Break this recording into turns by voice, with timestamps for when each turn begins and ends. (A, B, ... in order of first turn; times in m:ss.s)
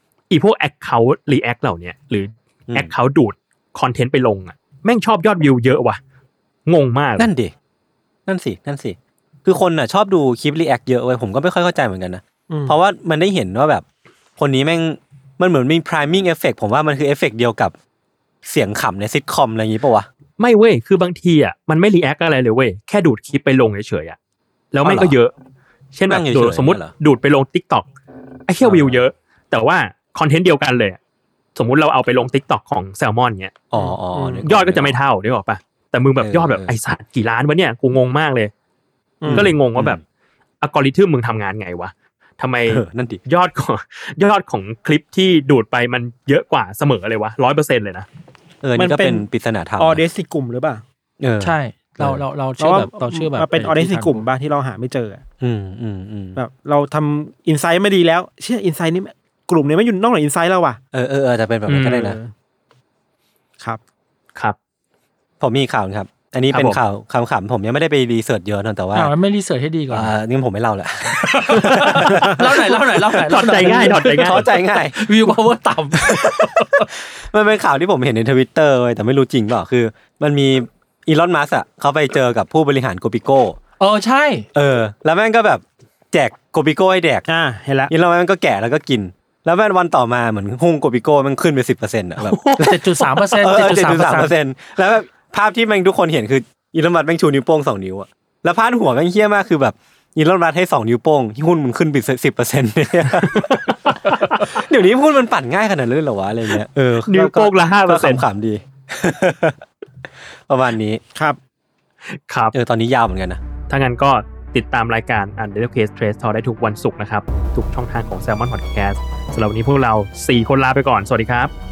0:00.3-0:06.0 A
0:06.6-0:07.3 A
0:07.2-0:07.5 B
0:08.3-0:13.8 B
0:12.5-0:12.8 C
0:14.4-0:17.7 B
0:18.4-0:20.1 B
0:20.4-0:24.2 A
0:24.7-0:25.3 A
0:24.8-0:25.1 B
0:25.9-0:27.9 A
0:26.1-0:26.9 B
0:28.5-0:31.0 A
0:28.6-0:29.0 B
0:31.6-0:33.6 A
0:33.7-0:34.9 B
0:33.8-0:34.4 C
0:34.4-0:38.5 A
0:36.2-0:36.7 B
0:39.2-0:39.5 C
0:39.2-0:40.0 A
0:39.2-0:40.0 B
0:40.6-0:48.0 A
0:42.7-0:43.2 B
0:48.6-0:50.0 B
0:48.8-0:49.2 C
0:49.8-0:50.8 C
0:51.2-0:52.2 B
0:51.4-0:54.2 D
0:52.6-0:55.2 C
0:55.4-0:56.4 B
0:56.4-1:00.8 C
1:00.9-1:02.2 B
1:01.7-1:02.0 A
1:02.0-1:02.3 C
1:05.4-1:09.1 B
1:06.5-1:06.8 A
1:08.9-1:10.1 D
1:09.9-1:15.0 B
1:11.0-1:16.9 D
1:13.3-1:14.4 A
1:15.9-1:23.6 B
1:23.8-1:24.5 D
1:24.5-1:27.2 B
1:27.3-1:27.9 C
1:27.9-1:49.6 B
1:32.3-1:34.3 D
1:43.3-1:44.5 A
1:47.1-1:48.2 A
1:50.5-1:51.0 B
1:52.1-1:52.5 A
1:52.5-1:53.4 B
1:53.7-2:01.5 A